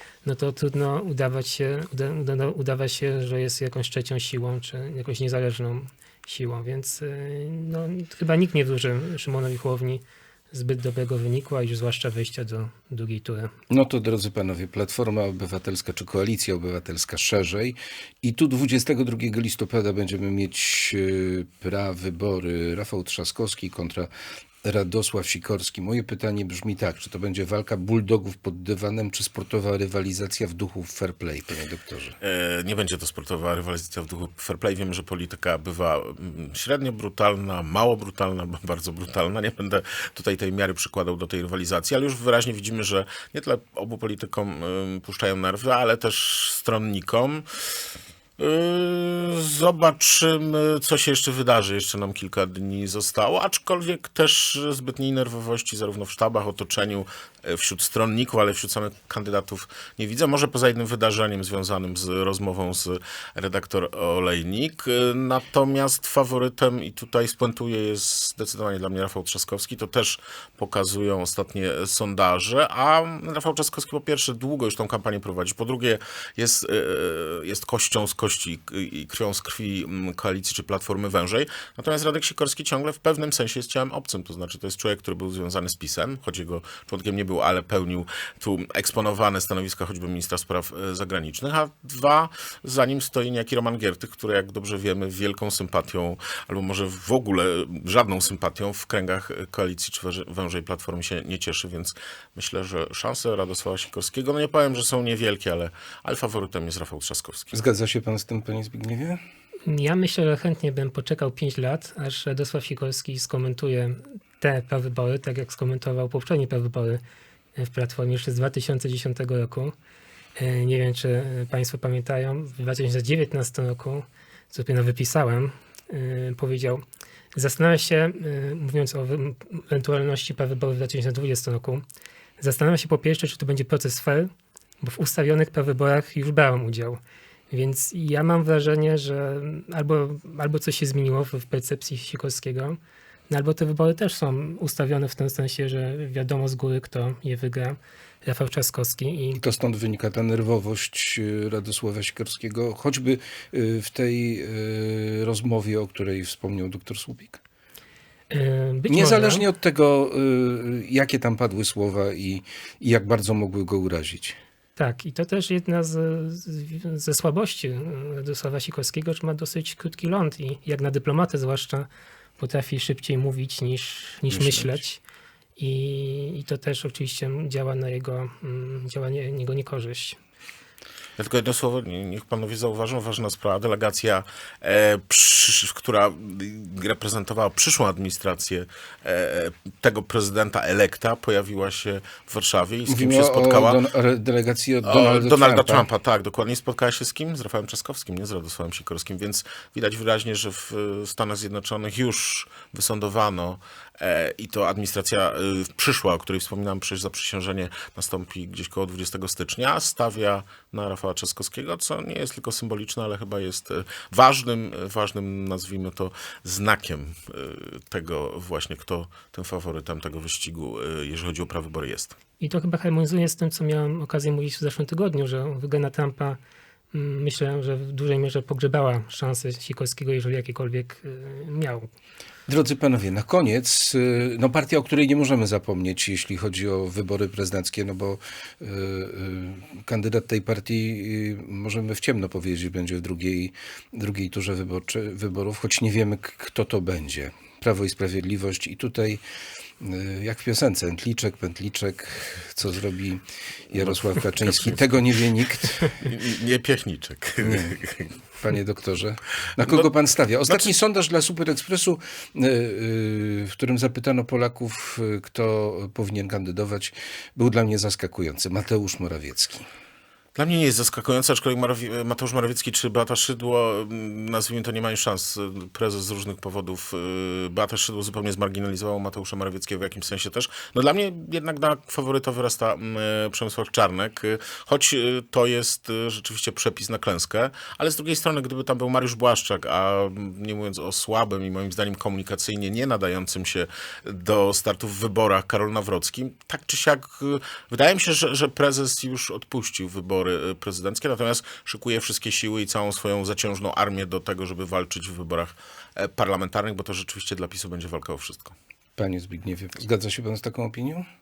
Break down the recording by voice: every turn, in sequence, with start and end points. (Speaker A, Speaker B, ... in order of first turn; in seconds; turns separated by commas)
Speaker A: 0.2-13.5, Speaker B: 13.7-24.1, Speaker B: 24.6-32.2, Speaker C: 32.2-47.5, Speaker C: 48.4-107.5, Speaker B: 107.5-109.2, Speaker A: 109.7-117.0, Speaker A: 117.6-119.8, Speaker A: 120.4-126.8, Speaker A: 127.3-131.8, Speaker A: 132.4-137.0, Speaker A: 137.5-142.8, Speaker A: 143.3-149.4, Speaker B: 149.4-157.4, Speaker A: 158.3-159.5, Speaker B: 158.9-164.4, Speaker A: 164.8-175.0, Speaker C: 174.3-174.8, Speaker A: 175.6-180.2, Speaker C: 181.2-193.8, Speaker B: 192.9-195.9, Speaker C: 194.8-222.2, Speaker A: 222.4-226.4, Speaker A: 226.9-231.9, Speaker B: 232.5-249.2, Speaker B: 249.8-256.0, Speaker C: 253.8-255.1, Speaker C: 255.8-258.1, Speaker B: 257.4-257.8, Speaker B: 258.4-269.7, Speaker C: 270.4-308.6, Speaker B: 309.0-311.1